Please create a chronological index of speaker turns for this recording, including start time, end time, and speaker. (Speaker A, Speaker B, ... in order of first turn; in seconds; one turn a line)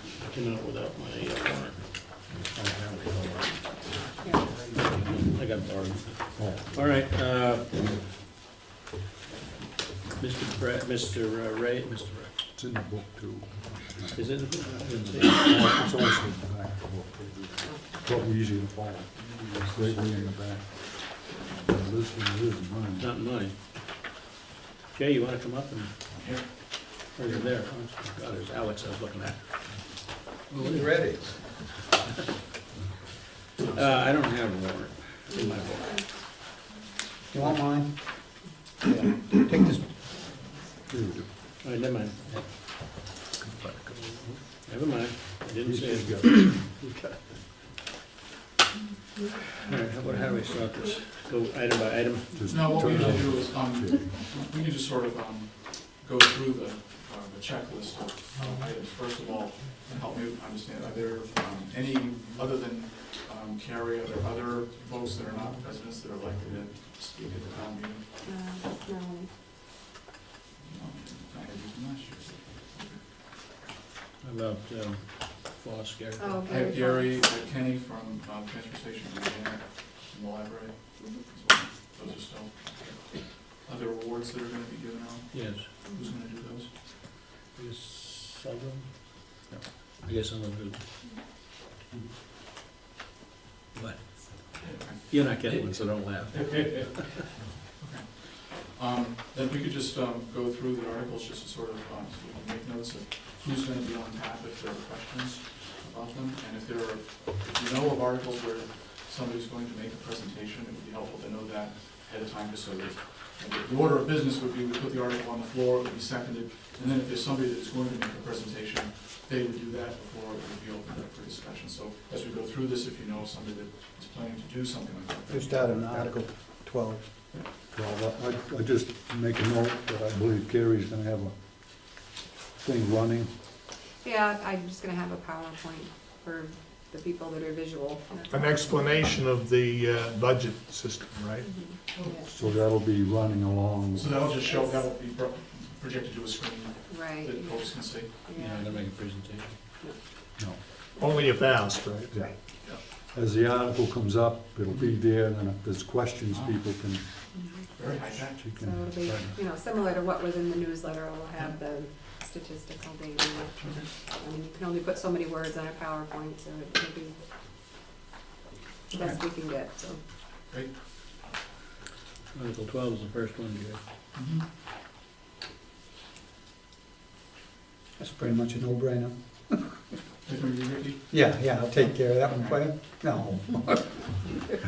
Speaker A: 0.2-1.9
Speaker B: 2.5-3.6
Speaker C: 4.2-4.5
Speaker A: 4.7-8.0
Speaker B: 6.4-6.7
Speaker A: 10.2-12.4
Speaker B: 12.5-23.1
Speaker A: 14.1-15.7
Speaker D: 19.1-20.1
Speaker A: 23.0-23.6
Speaker A: 24.9-26.0
Speaker D: 26.1-27.4
Speaker A: 27.1-30.0
Speaker A: 30.5-31.8
Speaker E: 30.6-31.2
Speaker A: 33.6-36.0
Speaker C: 35.3-36.1
Speaker E: 37.3-38.1
Speaker E: 38.8-39.9
Speaker B: 40.9-41.3
Speaker A: 41.6-42.6
Speaker B: 43.4-43.9
Speaker A: 43.9-46.9
Speaker B: 45.6-46.7
Speaker C: 49.1-50.4
Speaker A: 49.6-52.7
Speaker B: 52.3-54.1
Speaker D: 52.5-68.1
Speaker C: 68.2-69.3
Speaker D: 70.6-73.1
Speaker A: 74.2-76.4
Speaker C: 76.2-77.3
Speaker D: 76.5-86.7
Speaker C: 81.0-81.3
Speaker A: 85.3-85.7
Speaker C: 85.8-86.2
Speaker A: 87.5-90.8
Speaker A: 93.7-97.3
Speaker D: 94.6-95.4
Speaker D: 96.3-97.1
Speaker D: 97.8-125.8
Speaker E: 125.3-127.0
Speaker B: 125.8-126.2
Speaker B: 127.7-131.3
Speaker B: 132.6-133.3
Speaker C: 134.0-139.0
Speaker F: 138.3-141.5
Speaker C: 141.4-142.3
Speaker D: 141.9-142.2
Speaker B: 142.2-144.3
Speaker D: 143.9-148.1
Speaker C: 144.3-144.9
Speaker C: 146.9-148.9
Speaker A: 148.3-149.6
Speaker F: 150.9-152.1
Speaker B: 152.1-157.1
Speaker D: 156.3-156.6
Speaker C: 157.3-167.2
Speaker D: 157.7-158.4
Speaker B: 158.3-159.4
Speaker D: 163.6-163.9
Speaker C: 168.9-170.0
Speaker D: 170.5-170.7
Speaker A: 172.3-173.8
Speaker D: 174.1-174.4
Speaker E: 178.0-179.8
Speaker D: 180.2-182.7
Speaker E: 181.1-184.4